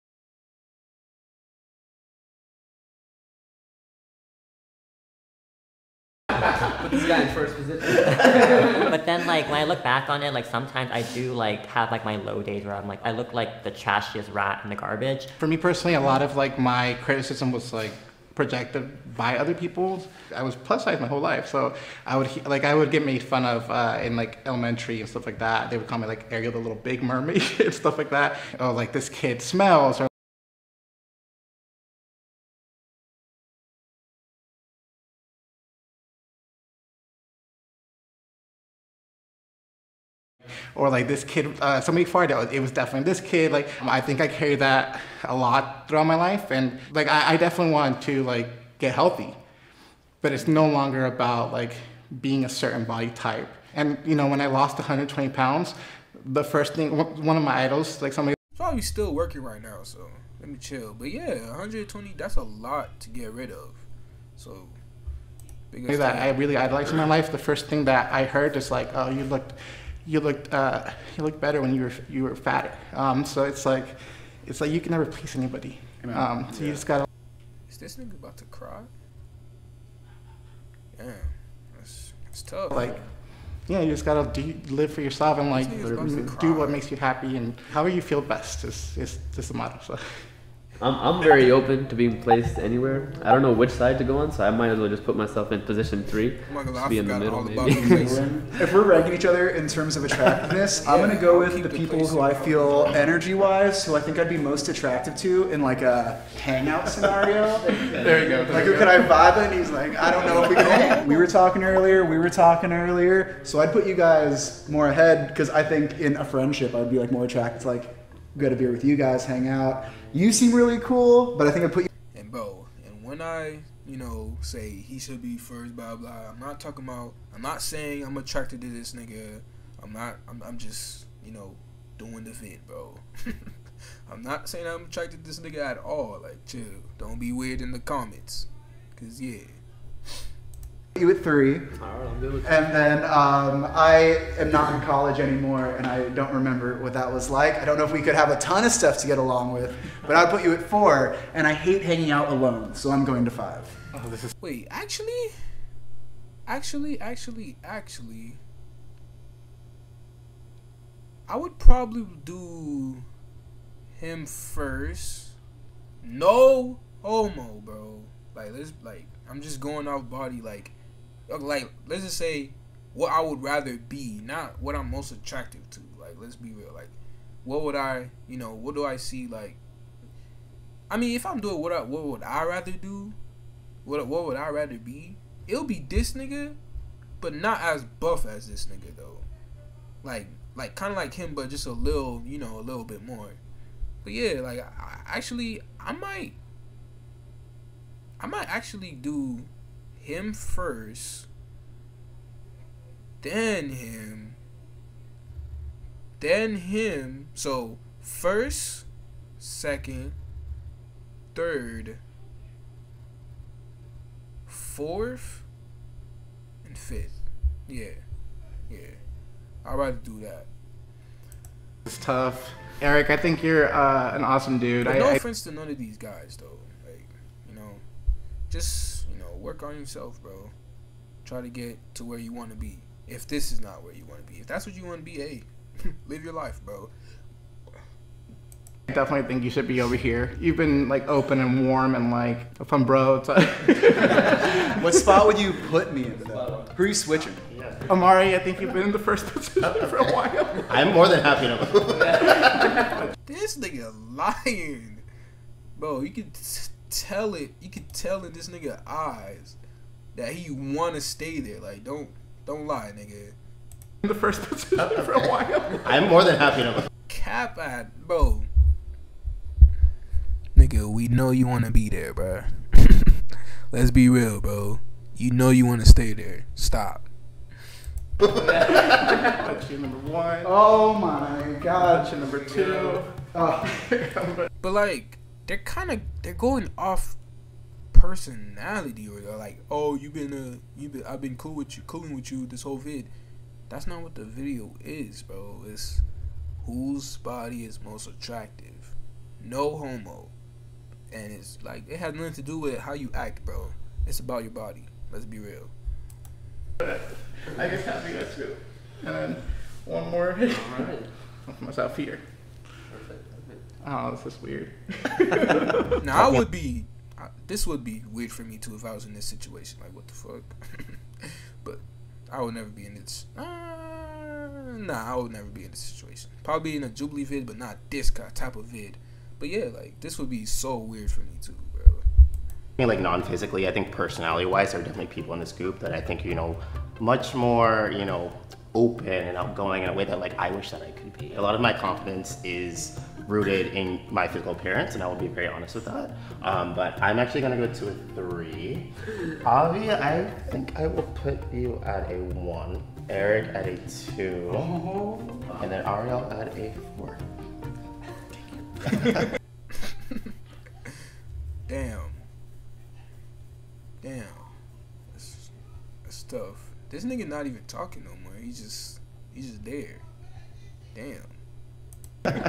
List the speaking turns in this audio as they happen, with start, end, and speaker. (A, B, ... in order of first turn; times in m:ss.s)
0:06.6-0:08.9 A
0:08.9-0:15.3 B
0:15.4-0:30.1 C
0:40.8-0:49.4 C
0:50.2-0:58.4 C
0:58.6-1:03.8 D
1:04.4-1:04.8 D
1:05.7-1:06.4 D
1:05.9-1:17.0 C
1:16.0-1:16.8 E
1:17.7-1:18.9 D
1:21.0-1:23.0 D
1:22.7-1:23.0 C
1:23.7-1:30.0 C
1:25.5-1:26.8 D
1:30.8-1:38.2 A
1:36.5-1:38.3 D
1:37.9-1:47.7 E
1:40.8-1:43.2 D
1:47.6-1:49.0 A
1:48.5-2:01.9 E
1:50.2-1:51.4 D
2:02.1-2:13.5 D
2:14.1-2:19.6 D
2:21.0-2:21.7 E
2:21.8-2:22.5 A
2:22.4-2:33.8 E
2:33.9-2:34.3 C
2:34.4-2:35.4 D
2:36.5-2:38.4 D
2:41.3-2:43.1 D
2:44.0-2:45.4 D
2:46.0-2:50.7 D
2:51.3-2:59.6 D
3:00.9-3:03.2 D
3:03.8-3:06.6 D
3:07.2-3:09.3 D
3:10.0-3:13.4 D
3:14.0-3:16.4 D
3:18.2-3:21.3 D
3:23.2-3:24.4 D
3:26.2-3:28.9 D
3:29.4-3:30.2 D
3:31.3-3:32.0 D
3:34.5-3:35.5 D
3:36.6-3:38.0 D
3:38.7-3:39.0 D
3:39.6-3:40.5 D
3:41.9-3:45.2 C
3:44.9-3:47.8 D
3:48.5-3:50.5 D
3:51.2-3:56.9 D
3:58.9-4:05.3 C
4:04.7-4:07.4 E
4:06.2-4:06.8 A
4:07.4-4:07.8 F
4:07.9-4:10.7 C
4:10.7-4:12.9 F
4:13.3-4:15.0 D
4:15.8-4:19.6 D
4:20.1-4:23.4 D
4:24.0-4:25.9 C
4:24.8-4:25.3 F
4:25.8-4:26.9 F
4:27.1-4:28.5 D
4:30.6-4:37.1 D
4:38.3-4:38.7 A
4:38.5-4:40.5 C
4:40.4-4:42.2 E
4:41.8-4:44.5 C
4:43.2-4:43.7 E
4:44.6-4:47.2 D
4:47.9-4:53.1 D
4:53.7-4:56.0 D
4:56.6-5:00.3 D
5:01.1-5:05.7 D
5:06.8-5:12.2 C
5:10.5-5:11.1 A
5:12.9-5:13.6 A
5:13.8-5:16.3 C
5:16.0-5:32.1 D
5:32.8-5:48.9 F
5:49.4-5:54.8 F
5:54.6-5:55.5 E
5:55.5-5:57.2 F
5:59.8-6:00.3 D
6:01.7-6:02.2 D
6:04.0-6:04.5 D
6:05.1-6:05.5 D
6:06.0-6:10.0 D
6:10.9-6:11.4 D